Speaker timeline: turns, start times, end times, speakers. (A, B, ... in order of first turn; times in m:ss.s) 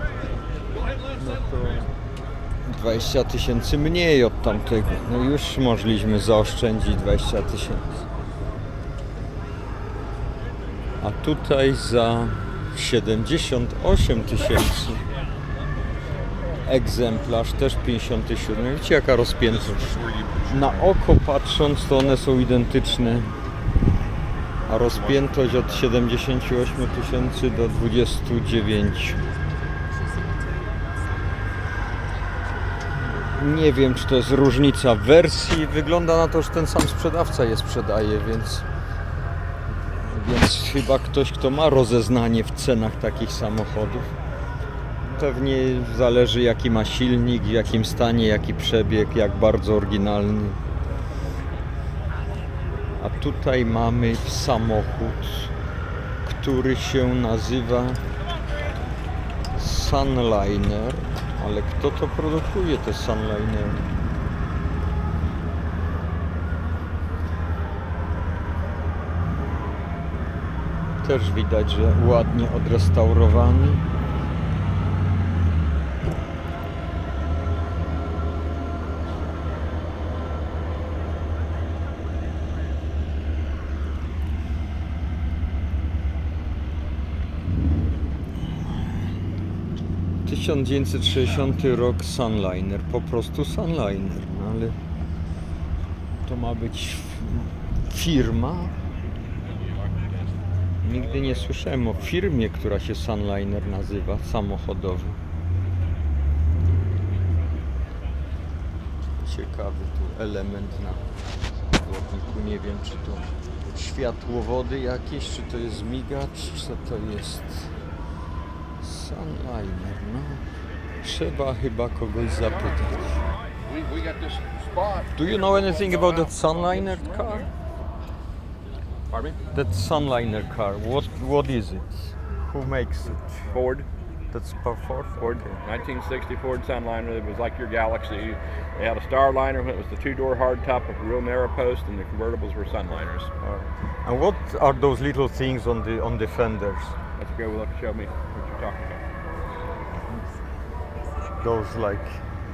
0:01.2-0:01.9 A
0:02.6-0:08.1 A
0:11.0-0:15.0 A
0:16.6-0:23.3 A
0:20.0-0:20.4 B
0:24.7-0:29.2 A
0:32.9-0:38.7 A
0:39.9-0:44.1 A
0:45.0-0:50.6 A
0:53.0-0:55.5 A
0:56.2-0:58.0 A
0:59.5-1:03.9 A
1:11.0-1:13.8 A
1:30.3-1:34.8 A
1:36.2-1:38.8 A
1:40.8-1:45.2 A
1:49.2-1:51.0 A
1:51.7-1:57.7 A
1:58.8-2:00.4 A
2:01.0-2:03.2 A
2:03.6-2:07.1 C
2:05.2-2:07.5 A
2:09.1-2:09.4 C
2:09.5-2:13.6 A
2:13.5-2:13.9 B
2:14.3-2:15.6 A
2:15.2-2:23.3 B
2:23.4-2:27.0 A
2:27.2-2:29.0 B
2:31.4-2:32.2 A